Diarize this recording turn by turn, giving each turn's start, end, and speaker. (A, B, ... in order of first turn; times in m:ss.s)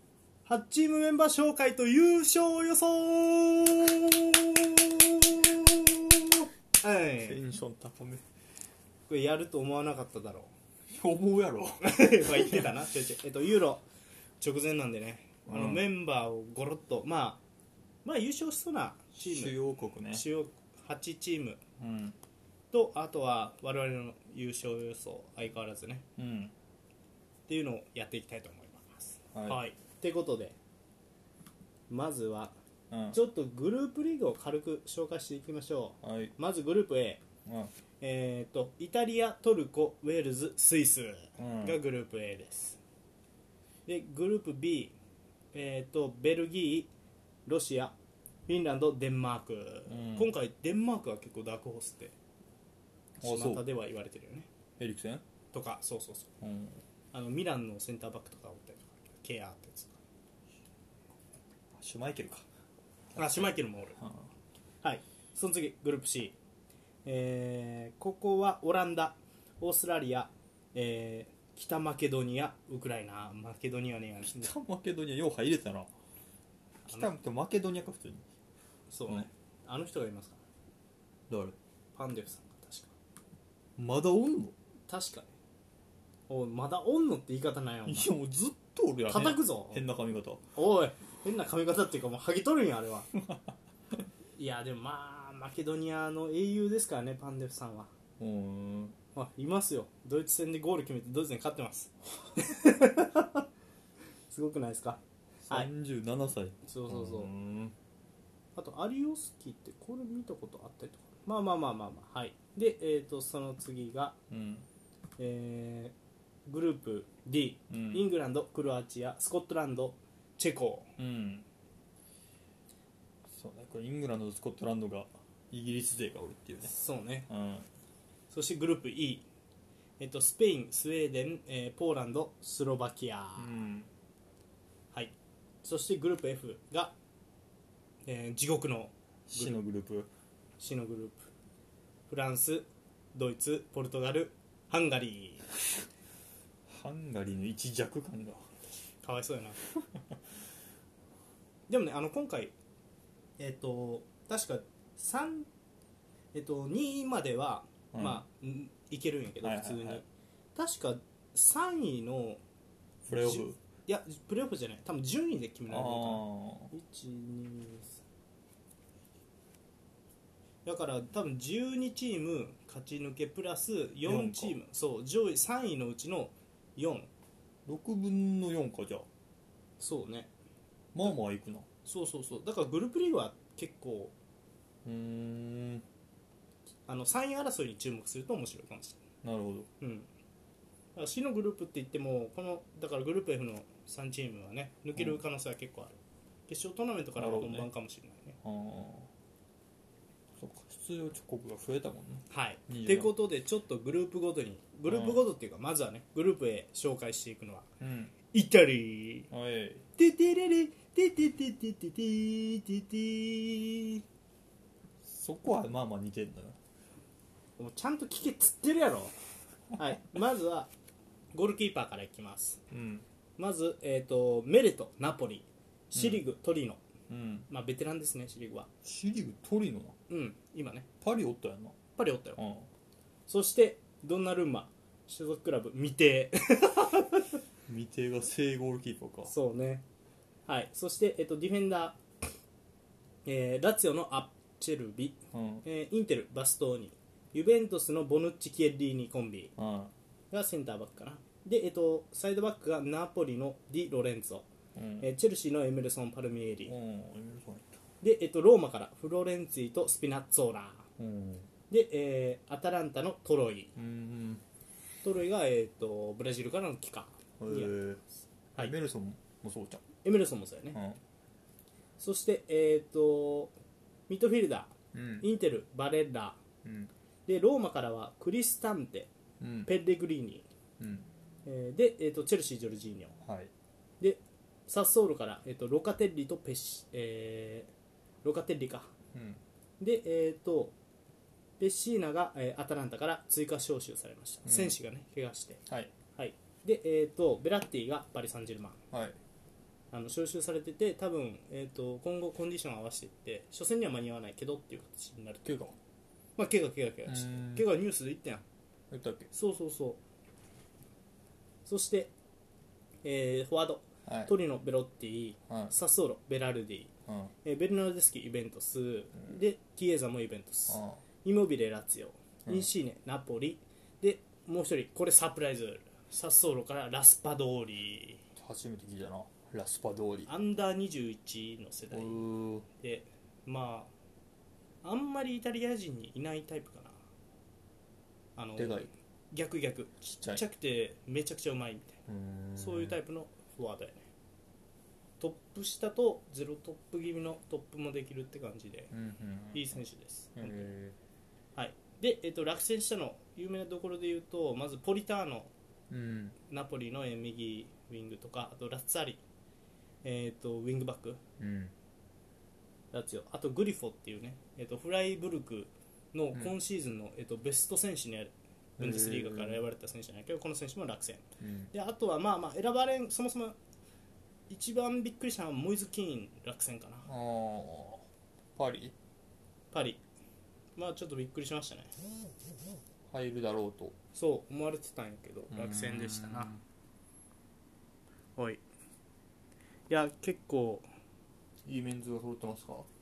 0:00.4-0:07.4 A
0:07.2-0:08.2 B
0:09.1-0:10.5 A
0:10.9-0:12.8 B
0:11.8-0:13.8 A
0:14.4-0:17.4 A
0:15.5-0:15.8 B
0:18.0-0:19.5 A
0:19.2-0:20.2 B
0:20.1-0:21.6 A
0:21.8-0:22.2 B
0:22.7-0:26.0 A
0:26.2-0:26.5 B
0:27.5-0:30.5 A
0:29.3-0:29.6 B
0:31.9-0:32.5 A
0:32.9-0:33.2 B
0:33.1-0:37.2 A
0:36.0-0:36.3 B
0:37.4-0:37.7 B
0:38.0-0:42.8 A
0:41.4-0:41.8 B
0:43.8-0:44.9 A
0:45.5-0:46.9 A
0:47.5-0:47.9 A
0:48.5-0:52.1 A
0:49.9-0:50.3 B
0:53.2-0:53.6 B
0:53.2-0:54.5 A
0:54.8-0:55.2 B
0:55.5-0:56.3 A
0:56.4-0:56.8 B
0:57.1-1:00.0 A
1:01.7-1:02.4 B
1:03.1-1:04.3 B
1:03.2-1:04.0 A
1:04.8-1:06.4 A
1:07.0-1:14.5 A
1:14.2-1:15.9 B
1:16.9-1:18.2 B
1:18.9-1:20.4 A
1:21.3-1:21.6 B
1:22.0-1:22.9 A
1:23.8-1:24.5 B
1:24.9-1:25.3 A
1:26.3-1:28.1 A
1:27.8-1:30.4 B
1:29.1-1:29.8 A
1:30.5-1:33.1 A
1:33.2-1:33.5 B
1:34.4-1:37.9 A
1:38.2-1:39.0 B
1:39.1-1:43.4 A
1:44.3-1:45.7 A
1:45.4-1:47.7 B
1:46.6-1:47.3 A
1:48.6-1:54.1 A
1:54.3-1:54.7 B
1:55.2-1:55.9 A
1:56.5-2:00.9 A
1:57.7-1:58.0 B
2:01.0-2:01.4 B
2:03.3-2:06.7 B
2:06.6-2:07.3 A
2:07.3-2:07.6 B
2:08.3-2:09.2 A
2:10.0-2:13.5 A
2:13.4-2:13.9 B
2:14.9-2:16.9 A
2:18.0-2:19.6 A
2:19.3-2:20.1 B
2:20.6-2:21.3 A
2:22.1-2:25.4 A
2:26.7-2:28.5 B
2:29.0-2:29.6 A
2:29.7-2:30.2 B
2:31.7-2:32.5 A
2:33.4-2:35.5 A
2:36.3-2:42.4 A
2:37.9-2:38.2 B
2:39.4-2:40.0 B
2:43.0-2:43.6 B
2:43.1-2:48.0 A
2:45.7-2:46.7 B
2:50.6-2:57.1 A
2:54.0-2:54.6 B
2:57.6-2:59.1 B
2:59.8-3:00.3 A
3:00.9-3:01.6 B
3:01.8-3:04.1 A
3:04.8-3:05.8 B
3:06.9-3:09.0 A
3:09.2-3:09.7 B
3:09.8-3:10.1 A
3:11.0-3:15.9 A
3:15.0-3:15.2 B
3:16.5-3:18.4 A
3:17.2-3:17.7 B
3:18.4-3:19.1 B
3:20.4-3:23.1 B
3:22.3-3:27.6 A
3:24.9-3:25.2 B
3:27.8-3:28.1 B
3:28.3-3:29.3 A
3:29.3-3:29.8 B
3:30.0-3:34.0 A
3:35.0-3:36.6 B
3:37.6-3:39.1 A
3:39.8-3:40.7 A
3:41.3-3:42.6 A
3:42.7-3:43.0 B
3:43.4-3:46.8 A
3:45.9-3:46.2 B
3:47.1-3:47.5 B
3:47.5-3:48.7 A
3:48.8-3:50.0 B
3:50.1-3:50.8 A
3:51.0-3:51.8 B
3:51.9-3:52.4 A
3:52.4-3:52.7 B
3:53.3-3:57.4 A
3:57.7-3:59.3 B
3:59.2-3:59.8 A
4:00.4-4:02.0 A
4:03.2-4:09.5 A
4:05.3-4:05.6 B
4:09.6-4:09.9 B
4:10.3-4:14.4 A
4:14.7-4:15.1 B
4:15.0-4:16.7 A
4:16.6-4:17.8 B
4:18.0-4:20.8 A
4:21.0-4:21.5 B
4:21.7-4:23.7 A
4:23.8-4:24.4 B
4:25.0-4:27.8 A
4:27.4-4:28.0 B
4:28.6-4:29.8 B
4:30.0-4:30.8 A
4:30.7-4:31.0 B
4:32.0-4:33.5 A
4:34.1-4:36.4 A
4:34.9-4:35.3 B
4:36.6-4:36.9 B
4:37.3-4:39.1 A
4:39.4-4:39.7 B
4:39.6-4:40.4 A
4:40.8-4:41.1 B
4:41.4-4:43.2 A
4:43.2-4:43.5 B
4:44.0-4:47.7 A
4:48.2-4:48.9 A
4:49.1-4:49.4 B
4:49.8-4:50.7 A
4:51.6-4:55.6 A
4:54.4-4:54.7 B
4:55.7-4:55.9 B
4:56.2-4:58.8 A
4:58.9-4:59.2 B
4:59.9-5:05.5 A
5:05.4-5:05.8 B
5:06.4-5:08.4 A
5:07.0-5:07.6 B
5:08.9-5:09.3 B
5:09.3-5:10.0 A
5:11.6-5:12.1 A
5:13.0-5:16.9 A
5:14.0-5:14.3 B
5:15.5-5:15.7 B
5:17.1-5:17.3 B
5:17.4-5:28.2 A
5:20.7-5:21.0 B
5:28.4-5:30.3 B
5:30.3-5:33.9 A
5:31.9-5:32.6 B
5:34.8-5:37.0 A
5:38.4-5:42.0 A
5:38.6-5:38.9 B
5:40.0-5:40.4 B
5:42.1-5:43.0 B
5:42.6-5:44.1 A
5:45.2-5:48.9 A
5:48.9-5:49.8 B
5:49.5-5:50.7 A
5:50.4-5:51.0 B
5:51.6-5:55.5 A
5:55.9-5:56.4 B
5:56.5-5:59.2 A
6:00.0-6:01.2 A
6:01.4-6:01.7 B
6:02.9-6:13.6 A
6:08.8-6:09.6 B
6:11.4-6:11.7 B
6:14.5-6:17.1 A
6:17.0-6:18.9 B
6:19.7-6:20.0 A
6:20.8-6:21.9 A
6:23.1-6:23.9 B
6:24.1-6:26.5 A
6:25.5-6:26.6 B
6:29.9-6:30.8 A
6:31.6-6:32.9 B